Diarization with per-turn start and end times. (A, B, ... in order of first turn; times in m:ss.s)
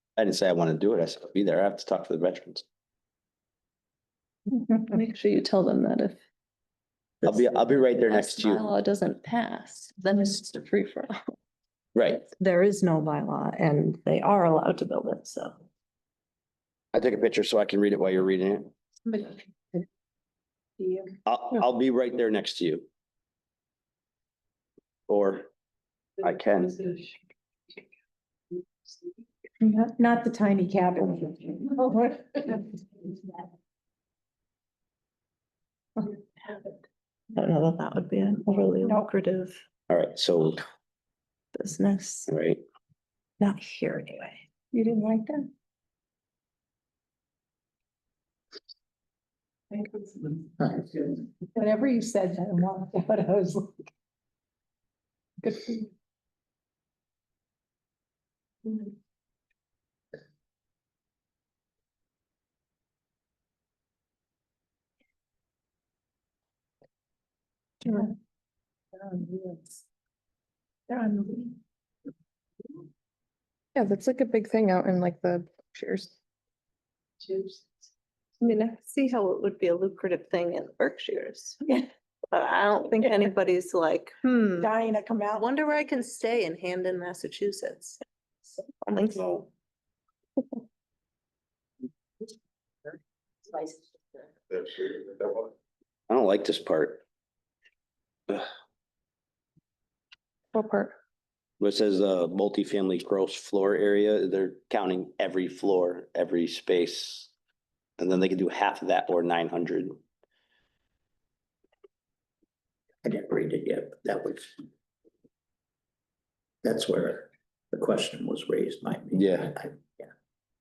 0:00.2-0:02.6 A
0:04.6-0:06.2 B
0:07.2-0:08.6 A
0:08.0-0:11.1 B
0:11.9-0:12.2 A
0:12.3-0:15.5 B
0:16.9-0:18.7 A
0:19.1-0:19.8 C
0:20.8-0:21.1 C
0:21.2-0:22.9 A
0:25.1-0:25.5 A
0:26.2-0:27.1 A
0:29.6-0:33.4 C
0:37.3-0:39.6 B
0:39.9-0:40.6 A
0:41.5-0:42.3 B
0:42.3-0:42.6 A
0:43.4-0:44.4 B
0:44.7-0:45.4 C
0:49.7-0:53.8 C
0:55.4-0:55.9 C
1:10.9-1:11.4 C
1:13.7-1:16.1 D
1:18.4-1:21.6 B
1:21.6-1:21.9 C
1:22.3-1:24.7 B
1:24.6-1:25.5 C
1:25.3-1:28.0 B
1:28.7-1:29.5 B
1:35.1-1:35.5 A
1:36.1-1:37.0 A
1:40.5-1:40.9 D
1:41.6-1:47.3 A
1:48.0-1:50.0 A
1:53.0-1:54.5 E
1:56.6-2:00.1 E
1:59.1-1:59.5 A